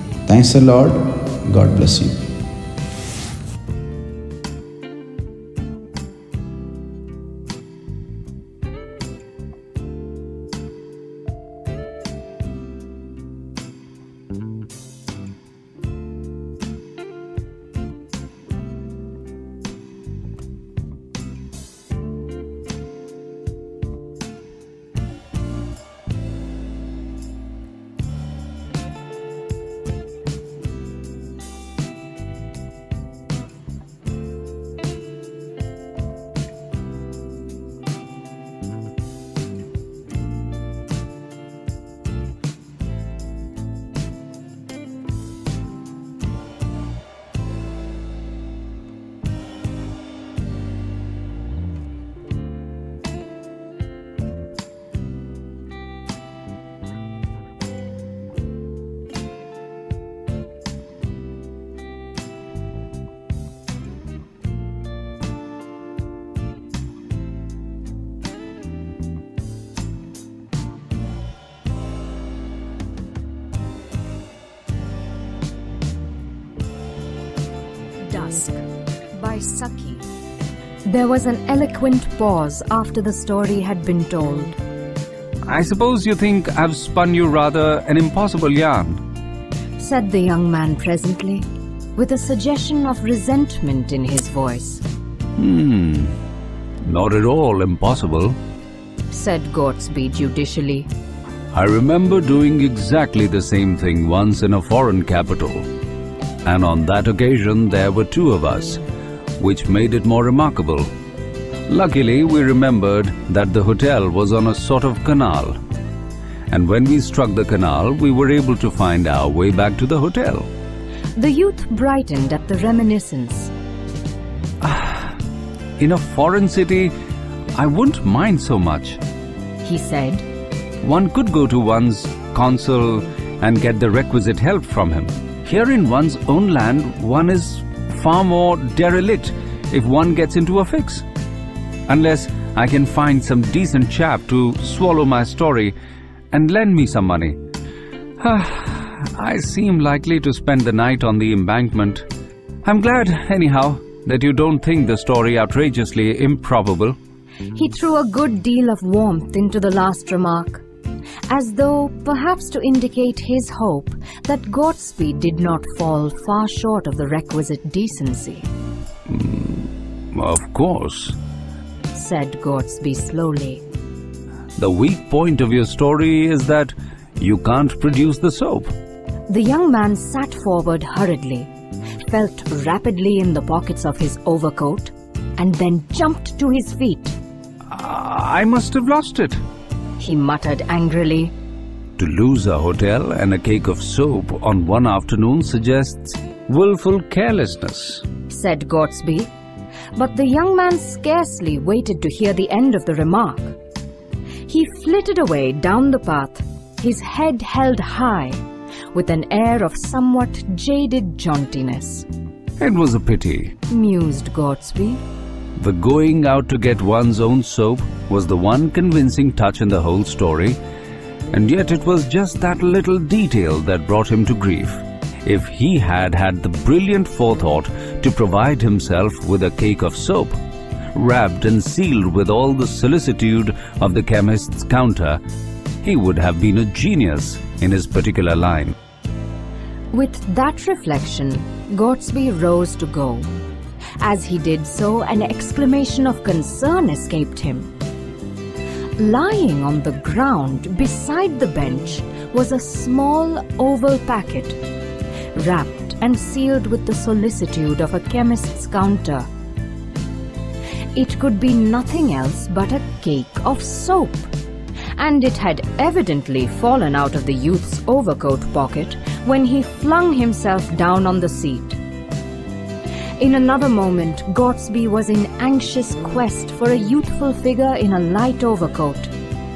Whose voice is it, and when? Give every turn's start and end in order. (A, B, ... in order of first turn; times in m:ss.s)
0:00.3-0:02.2 A
1:18.1-1:20.0 B
1:20.9-1:24.6 B
1:25.5-1:29.0 C
1:29.8-1:34.8 B
1:35.4-1:36.2 C
1:36.8-1:38.4 C
1:39.1-1:40.9 B
1:41.5-1:45.7 C
1:46.4-1:48.8 C
1:49.4-1:50.9 C
1:51.7-1:55.6 C
1:56.5-2:00.5 C
2:01.2-2:03.5 B
2:04.6-2:05.1 C
2:05.8-2:06.9 C
2:07.6-2:09.0 C
2:09.6-2:10.2 B
2:10.8-2:21.1 C
2:21.9-2:25.7 C
2:26.3-2:27.4 C
2:28.2-2:32.1 C
2:32.6-2:37.0 C
2:37.5-2:40.6 B
2:41.3-2:48.5 B
2:49.1-2:51.2 C
2:51.9-2:53.6 B
2:54.6-2:58.7 C
2:59.3-3:01.5 B
3:02.1-3:07.2 B
3:07.7-3:09.4 C
3:10.0-3:11.3 B
3:12.0-3:18.1 C
3:18.3-3:19.3 B
3:20.0-3:23.6 B
3:24.5-3:28.4 B
3:28.9-3:32.1 B
3:32.6-3:33.6 C
3:33.7-3:35.0 B
3:35.6-3:40.6 C
3:41.3-3:50.4 C
3:50.9-3:55.2 C
3:55.8-3:58.8 C
3:59.9-4:03.3 B
4:04.0-4:07.7 B
4:09.0-4:14.6 B
4:15.3-4:19.3 B
4:21.0-4:24.3 B
4:25.0-4:31.8 B
4:33.2-4:39.1 B